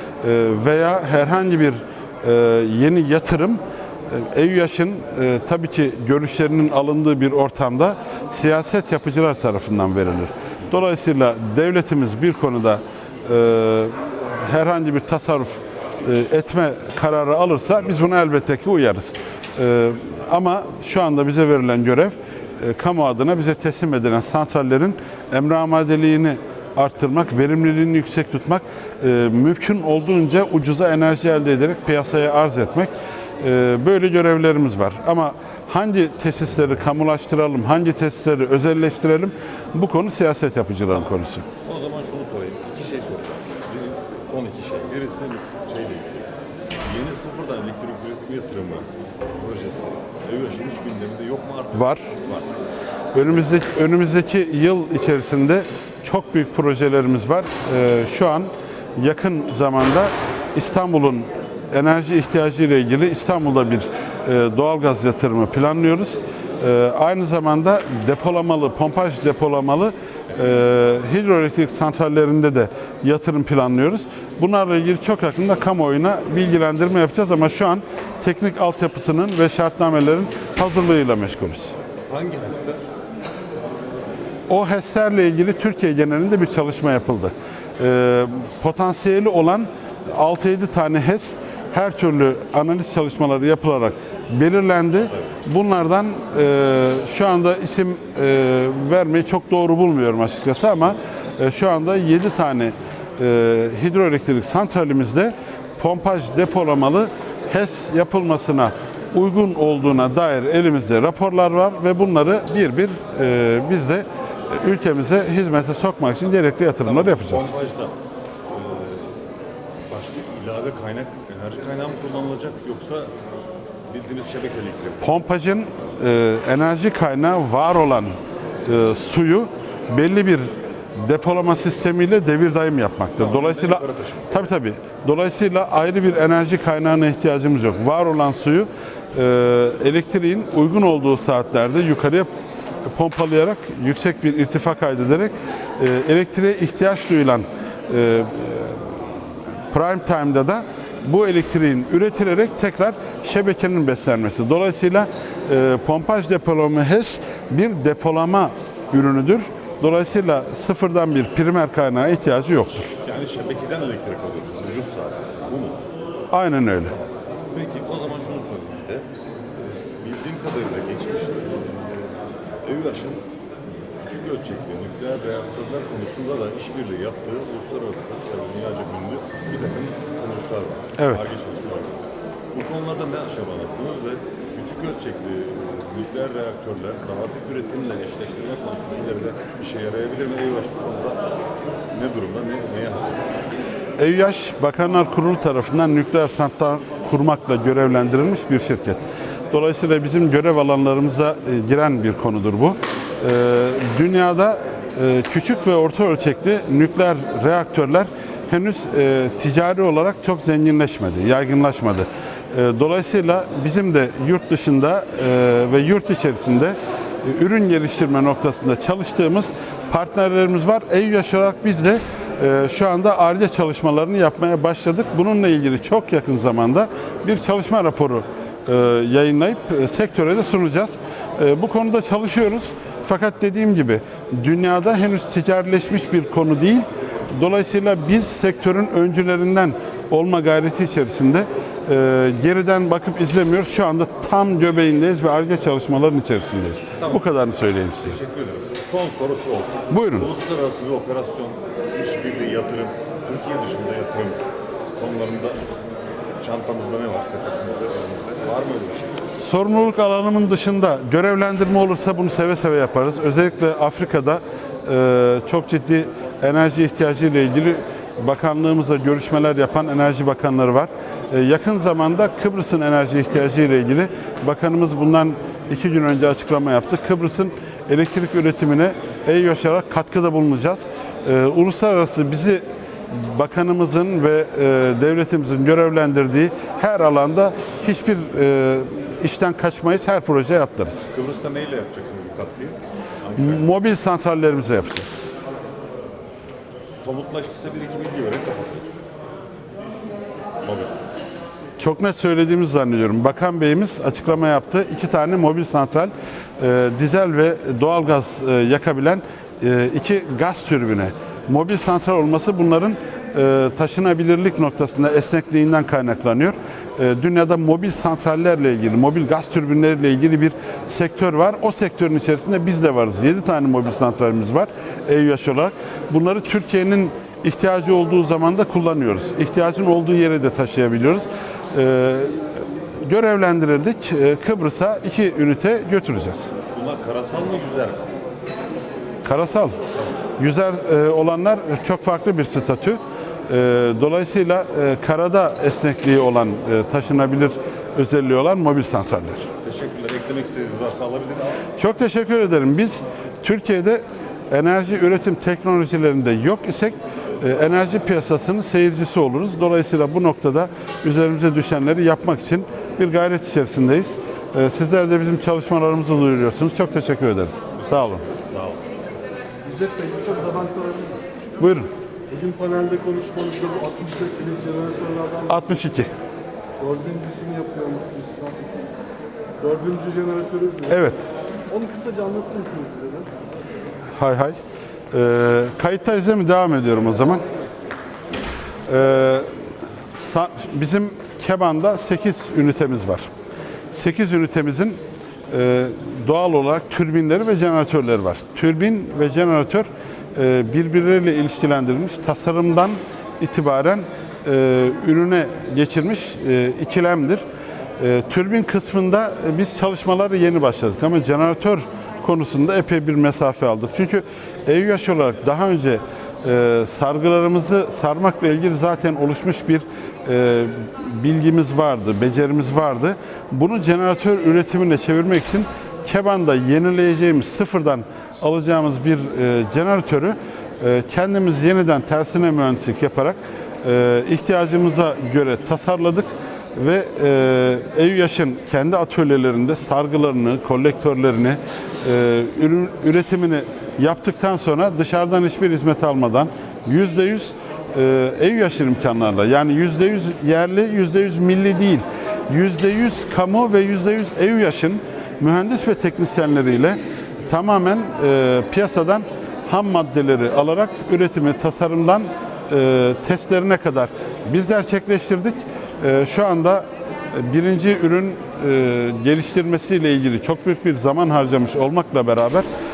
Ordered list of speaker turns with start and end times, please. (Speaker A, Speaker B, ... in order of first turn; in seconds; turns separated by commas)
Speaker A: 0.2-41.5, Speaker B: 41.6-46.3, Speaker B: 46.8-52.5, Speaker A: 51.7-52.0, Speaker A: 53.1-81.7, Speaker B: 82.1-82.8, Speaker A: 84.5-117.5, Speaker B: 95.0-95.4, Speaker B: 116.8-117.9, Speaker B: 118.5-119.2, Speaker B: 119.9-123.1, Speaker B: 123.9-125.2, Speaker A: 125.0-142.3, Speaker B: 133.2-134.5, Speaker A: 142.9-162.9, Speaker B: 163.0-165.8, Speaker A: 166.3-166.9, Speaker B: 166.8-173.2, Speaker B: 174.0-191.2, Speaker A: 181.0-181.3, Speaker B: 191.9-193.2, Speaker A: 194.0-248.2, Speaker B: 247.0-247.3, Speaker B: 248.0-254.4, Speaker A: 249.9-250.3, Speaker B: 254.9-255.6, Speaker B: 256.4-259.2, Speaker A: 259.4-291.1, Speaker B: 291.1-293.7, Speaker A: 293.4-295.2, Speaker B: 296.9-298.9, Speaker B: 300.6-301.0, Speaker A: 301.8-336.5, Speaker B: 336.7-338.1, Speaker A: 339.2-339.8, Speaker A: 340.4-349.5, Speaker B: 349.6-351.6, Speaker A: 351.8-368.2, Speaker B: 367.8-368.8, Speaker C: 369.6-371.2, Speaker A: 371.6-371.9, Speaker C: 372.3-375.5, Speaker A: 375.4-376.1, Speaker C: 376.8-378.7, Speaker C: 379.6-381.0, Speaker A: 380.9-381.2, Speaker C: 381.7-383.3, Speaker A: 384.2-384.6, Speaker A: 385.1-387.4, Speaker A: 388.9-389.5, Speaker A: 390.1-393.3, Speaker A: 393.9-395.0, Speaker A: 395.5-407.4, Speaker A: 408.0-472.6